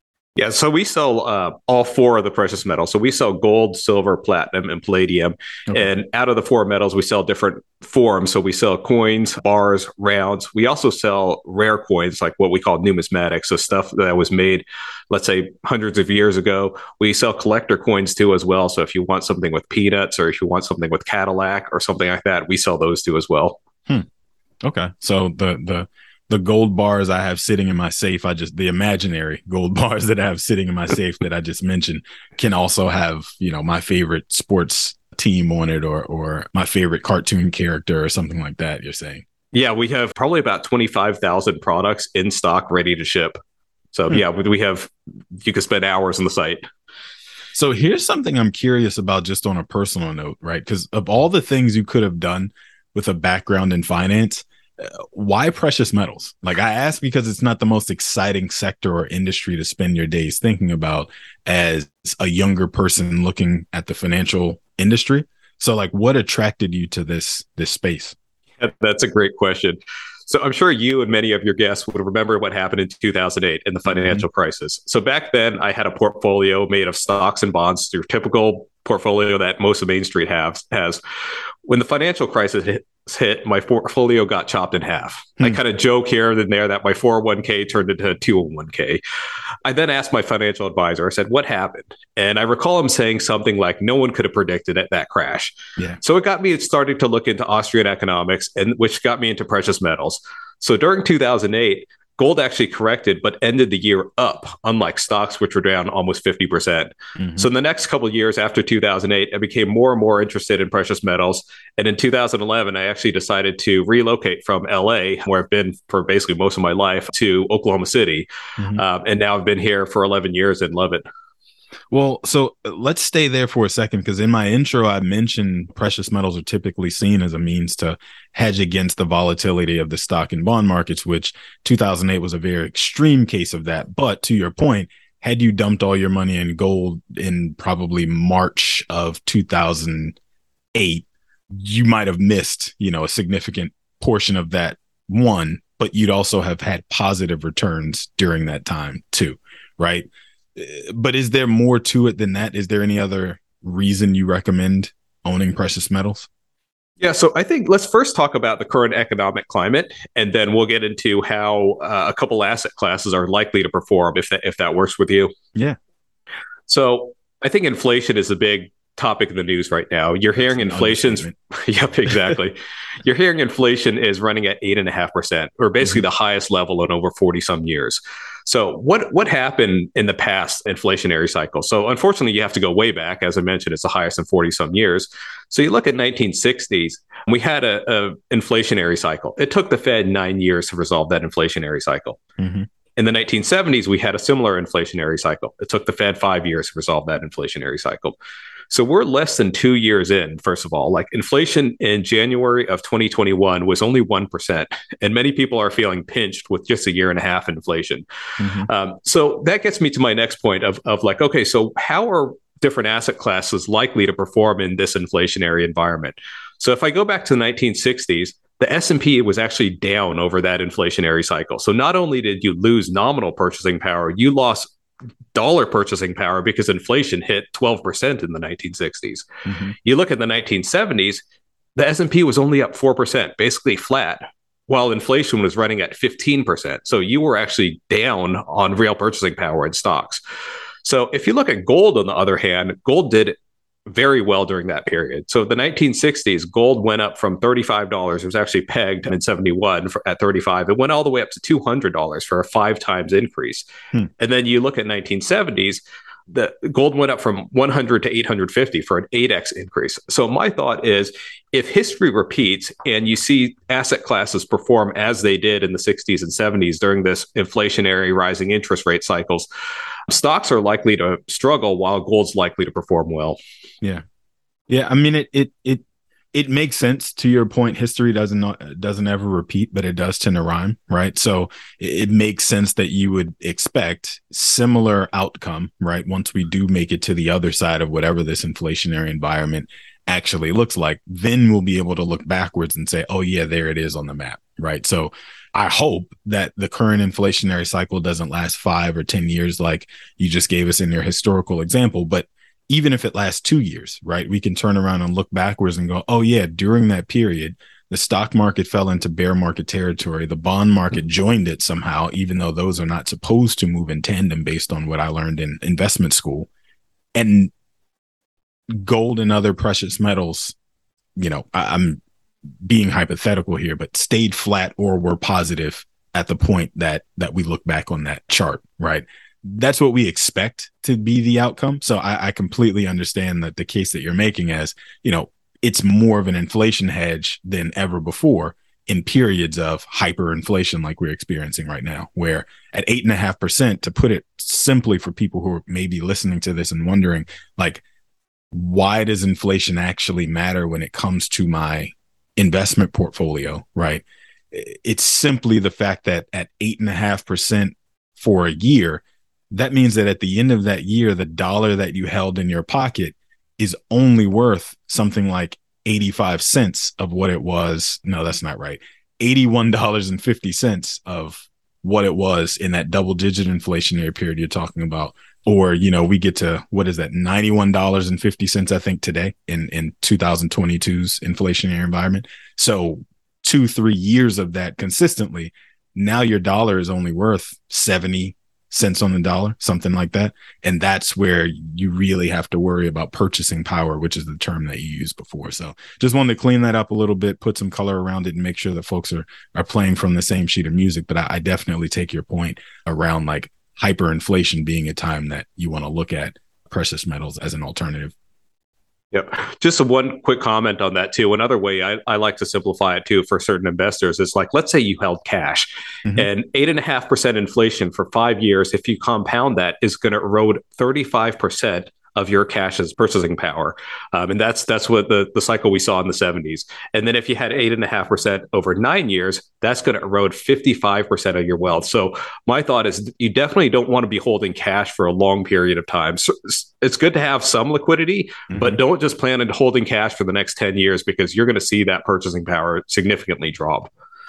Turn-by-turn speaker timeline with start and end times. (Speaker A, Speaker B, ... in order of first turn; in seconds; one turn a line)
Speaker A: 0.3-23.6
Speaker B: 24.6-39.2
Speaker A: 39.5-43.4
Speaker A: 43.9-46.6
Speaker B: 47.5-68.1
Speaker A: 68.6-81.0
Speaker B: 73.9-74.2
Speaker A: 81.7-89.0
Speaker A: 89.6-121.0
Speaker B: 107.2-107.5
Speaker B: 121.9-140.2
Speaker B: 140.7-156.3
Speaker A: 157.0-165.3
Speaker A: 166.7-192.2
Speaker B: 170.4-171.3
Speaker B: 192.4-192.7
Speaker A: 193.0-198.1
Speaker A: 198.7-208.0
Speaker B: 208.4-208.7
Speaker A: 208.6-224.7
Speaker A: 225.3-229.3
Speaker B: 229.4-229.7
Speaker A: 229.8-231.2
Speaker A: 231.8-240.2
Speaker A: 240.8-243.3
Speaker A: 243.9-253.7
Speaker A: 254.2-269.5
Speaker A: 270.1-273.4
Speaker B: 274.7-316.5
Speaker B: 317.1-317.5
Speaker B: 318.7-320.5
Speaker B: 321.1-322.0
Speaker B: 322.6-347.8
Speaker B: 348.5-408.1
Speaker A: 409.1-443.9
Speaker B: 438.5-438.8